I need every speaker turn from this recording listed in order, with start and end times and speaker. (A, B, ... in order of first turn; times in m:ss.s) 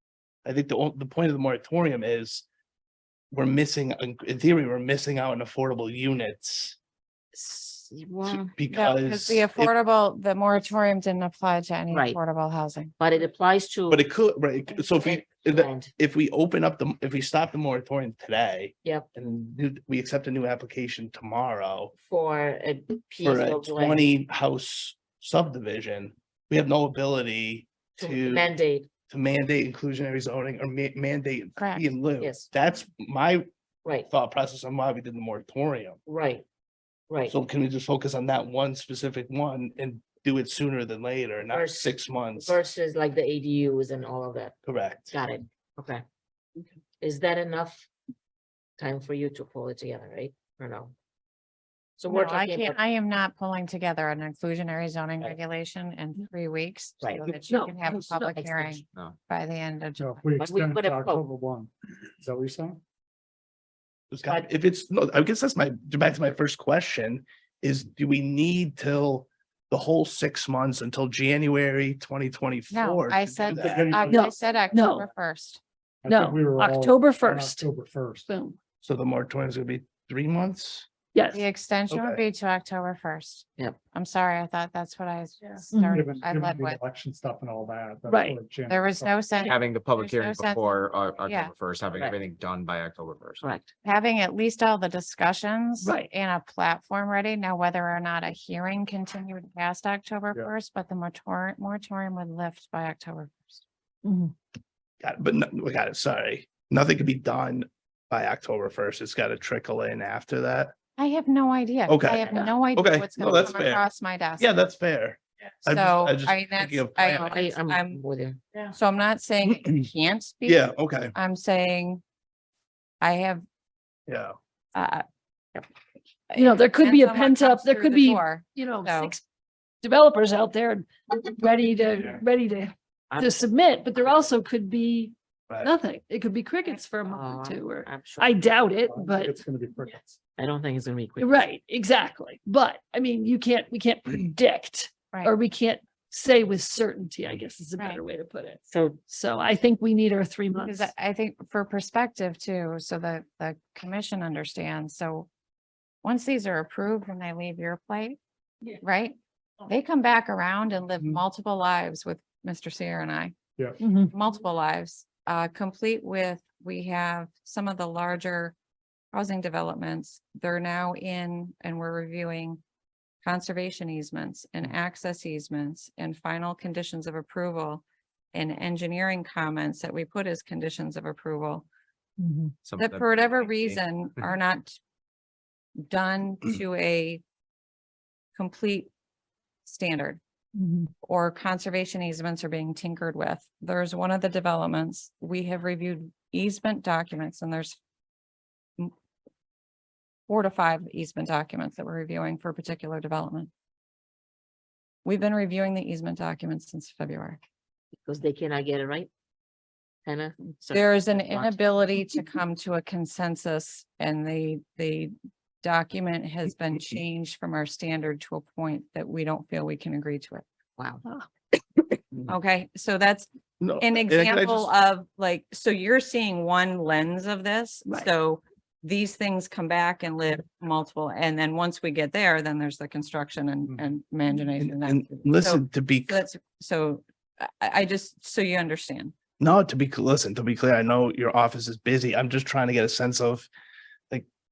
0:00.4-0:02.4 A
0:03.3-0:06.8 A
0:07.3-0:08.5 B
0:08.2-0:09.7 A
0:08.7-0:12.9 C
0:11.9-0:12.2 B
0:13.0-0:14.0 B
0:13.9-0:21.9 A
0:14.8-0:15.9 B
0:22.0-0:24.1 B
0:23.2-0:28.5 A
0:28.0-0:28.9 B
0:29.1-0:33.5 A
0:31.6-0:31.9 C
0:32.2-0:32.5 B
0:34.1-0:36.0 A
0:36.0-0:36.4 B
0:37.1-0:37.3 B
0:37.3-0:42.6 A
0:41.5-0:44.6 B
0:44.6-0:45.1 A
0:45.1-0:46.0 B
0:47.0-0:47.9 B
0:48.8-0:50.9 B
0:52.0-0:52.8 B
0:52.1-1:00.2 C
0:57.0-0:57.3 B
0:57.5-0:57.8 D
0:58.1-0:58.8 B
1:00.0-1:02.8 E
1:00.4-1:01.2 B
1:04.1-1:13.9 A
1:12.7-1:15.6 C
1:13.5-1:14.6 E
1:14.1-1:15.1 D
1:16.0-1:18.3 E
1:16.1-1:17.6 D
1:18.3-1:18.6 D
1:18.8-1:20.9 A
1:21.1-1:21.4 D
1:21.3-1:26.8 C
1:21.9-1:22.2 A
1:25.7-1:26.0 D
1:25.9-1:29.2 E
1:28.1-1:28.4 D
1:28.7-1:31.5 C
1:29.5-1:33.5 F
1:33.4-1:33.7 B
1:33.8-1:43.6 C
1:35.8-1:36.1 D
1:44.0-1:44.3 D
1:45.0-1:50.7 A
1:51.0-1:54.6 C
1:51.9-1:53.8 A
1:52.2-1:52.5 B
1:54.4-1:57.2 A
1:55.6-1:58.0 C
1:57.0-1:58.7 B
1:58.7-2:02.0 C
1:59.5-1:59.8 A
2:00.4-2:01.1 A
2:03.0-2:03.4 C
2:04.1-2:04.4 A
2:04.7-2:05.0 C
2:06.3-2:09.1 C
2:06.3-2:09.2 D
2:09.8-2:19.4 D
2:13.1-2:13.4 B
2:14.0-2:14.2 B
2:17.1-2:18.4 B
2:18.8-2:20.2 E
2:20.4-2:21.4 B
2:21.2-2:30.9 D
2:28.7-2:29.0 B
2:30.6-2:35.3 C
2:36.0-2:38.2 C
2:38.8-2:43.3 C
2:43.8-2:44.1 D
2:44.0-2:48.5 C
2:49.1-2:52.6 C
2:53.2-3:01.6 C
3:02.2-3:02.6 D
3:02.6-3:04.3 F
3:02.7-3:04.8 C
3:05.8-3:07.2 C
3:08.3-3:08.9 C
3:09.6-3:10.2 C
3:10.5-3:10.9 D
3:11.0-3:17.8 C
3:20.3-3:23.5 C
3:25.0-3:27.4 C
3:28.0-3:29.1 B
3:30.0-3:32.0 B
3:30.7-3:40.4 C
3:42.3-3:59.1 C
3:43.6-3:44.7 A
3:54.6-3:56.2 A
3:59.4-4:03.5 A